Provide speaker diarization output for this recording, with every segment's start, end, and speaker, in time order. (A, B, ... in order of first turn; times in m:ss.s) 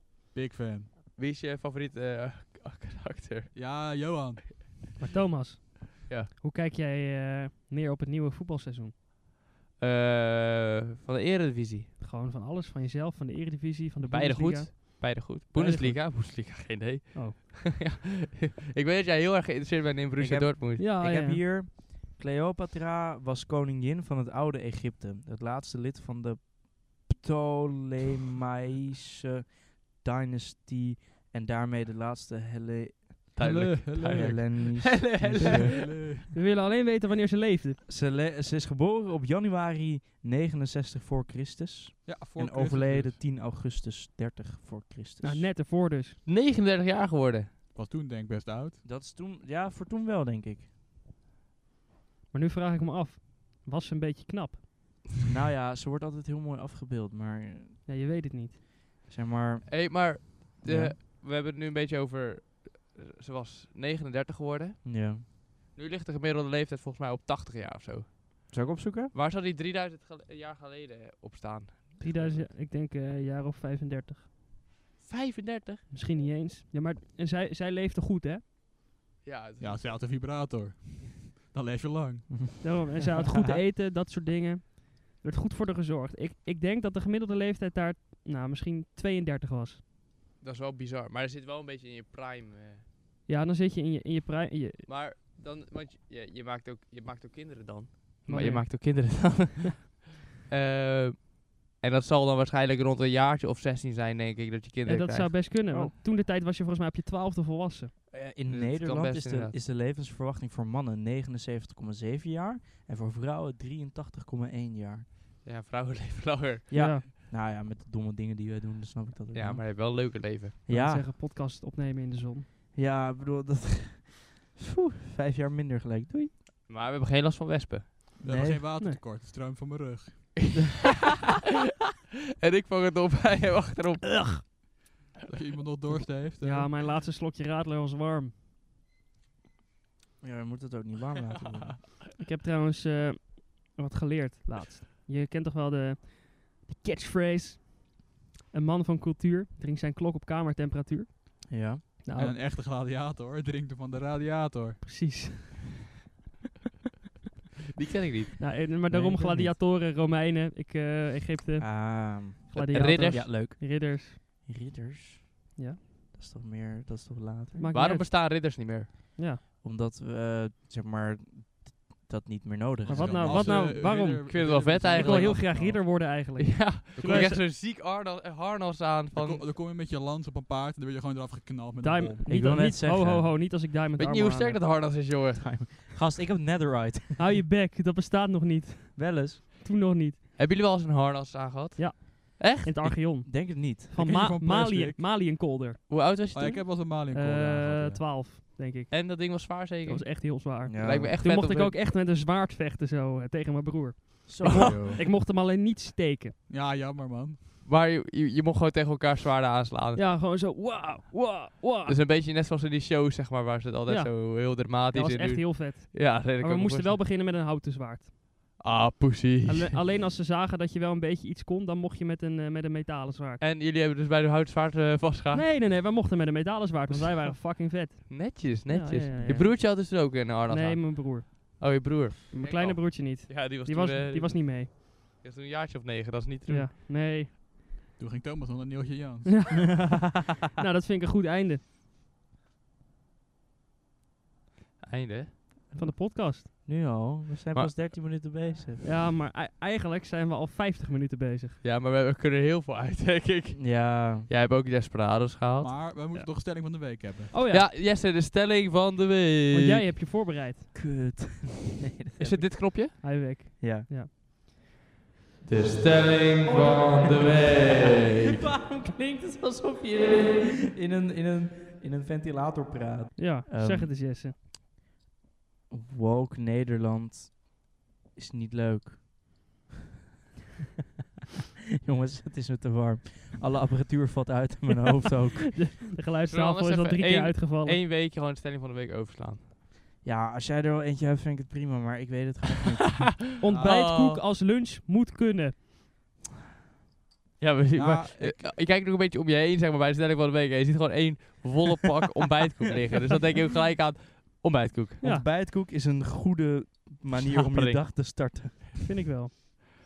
0:00.3-0:00.9 A
0:01.2-0:04.1 B
0:03.5-0:04.6 A
0:05.0-0:08.9 C
0:09.8-0:11.9 B
0:12.0-0:16.1 C
0:14.0-0:20.8 B
0:20.2-0:35.8 D
0:20.8-0:21.4 C
0:33.4-0:35.8 B
0:33.4-0:36.3 A
0:36.3-0:37.8 C
0:37.9-0:45.5 D
0:42.0-0:43.2 A
0:45.2-0:46.2 C
0:46.3-0:47.5 B
0:47.7-0:48.8 A
0:48.8-0:50.7 D
0:52.3-0:54.6 C
0:55.3-0:57.8 D
0:57.9-0:58.6 C
0:59.0-1:00.1 D
0:59.7-1:05.1 B
1:00.6-1:01.0 D
1:04.8-1:05.2 D
1:05.7-1:08.1 B
1:08.5-1:09.1 D
1:09.1-1:12.5 B
1:12.0-1:14.3 C
1:15.0-1:15.9 B
1:15.9-1:18.4 C
1:19.2-1:19.9 B
1:19.6-1:22.6 A
1:22.3-1:23.6 D
1:22.6-1:29.8 C
1:30.4-1:32.8 B
1:33.3-1:34.9 C
1:34.9-1:45.5 B
1:38.3-1:38.7 C
1:44.8-1:47.9 C
1:48.1-1:55.1 D
1:48.5-1:49.5 B
1:55.4-1:56.8 B
1:56.7-2:00.1 D
1:56.7-1:57.0 C
1:59.3-2:00.6 B
2:00.6-2:01.1 D
2:00.7-2:02.5 C
2:02.7-2:06.3 D
2:06.7-2:08.1 B
2:08.2-2:08.6 D
2:08.2-2:10.6 A
2:12.4-2:14.5 B
2:15.3-2:16.7 A
2:16.4-2:18.3 C
2:20.2-2:21.8 D
2:22.2-2:32.3 C
2:31.5-2:31.8 D
2:32.1-2:34.8 A
2:34.8-2:35.7 C
2:37.8-2:38.5 B
2:38.4-2:44.2 C
2:38.9-2:39.6 D
2:41.6-2:45.6 D
2:42.7-2:43.3 B
2:46.1-2:47.7 D
2:47.6-2:48.2 C
2:47.7-2:48.9 B
2:49.6-2:53.7 D
2:52.9-2:55.9 A
2:52.9-2:57.4 C
2:53.6-2:59.5 B
2:57.0-2:57.4 A
2:59.1-3:02.2 A
3:01.8-3:04.6 C
3:02.3-3:03.3 D
3:04.0-3:05.9 B
3:05.4-3:07.3 D
3:07.2-3:10.2 C
3:09.0-3:09.4 D
3:10.4-3:13.0 B
3:11.8-3:15.9 C
3:13.3-3:13.9 D
3:14.0-3:15.1 A
3:15.9-3:16.7 B
3:16.3-3:18.1 A
3:17.1-3:26.4 C
3:18.9-3:21.8 B
3:20.6-3:21.2 D
3:24.3-3:24.9 D
3:24.4-3:24.8 B
3:24.6-3:25.0 A
3:26.5-3:27.4 A
3:27.6-3:30.0 B
3:30.0-3:32.0 C
3:31.9-3:37.0 B
3:33.9-3:38.6 C
3:38.6-3:39.8 B
3:39.5-3:43.4 C
3:43.4-3:45.5 B
3:45.3-3:54.7 C
3:46.9-3:47.3 B
3:47.9-3:56.7 B
3:56.5-3:57.3 C
3:58.0-3:59.5 A
3:59.3-4:01.6 C
4:04.8-4:05.4 B
4:05.7-4:08.9 D
4:05.8-4:06.5 C
4:08.8-4:11.6 C
4:11.6-4:15.8 B
4:13.6-4:14.3 D
4:15.6-4:17.3 A
4:17.3-4:17.7 C
4:17.5-4:19.8 B
4:19.5-4:20.7 C
4:20.7-4:23.1 D
4:22.2-4:23.0 B
4:22.9-4:24.1 C
4:23.6-4:23.9 D
4:25.4-4:28.3 B
4:28.4-4:34.0 D
4:33.2-4:34.3 C
4:35.7-4:39.5 D
4:41.8-4:45.8 D
4:45.6-4:47.8 C
4:46.3-4:49.5 B
4:50.0-4:53.8 D
4:53.4-4:55.6 C
4:53.5-4:54.2 B
4:57.4-5:05.0 B
4:57.8-4:58.5 A
5:05.0-5:05.3 C
5:05.0-5:08.8 D
5:07.1-5:07.9 B
5:08.8-5:09.4 C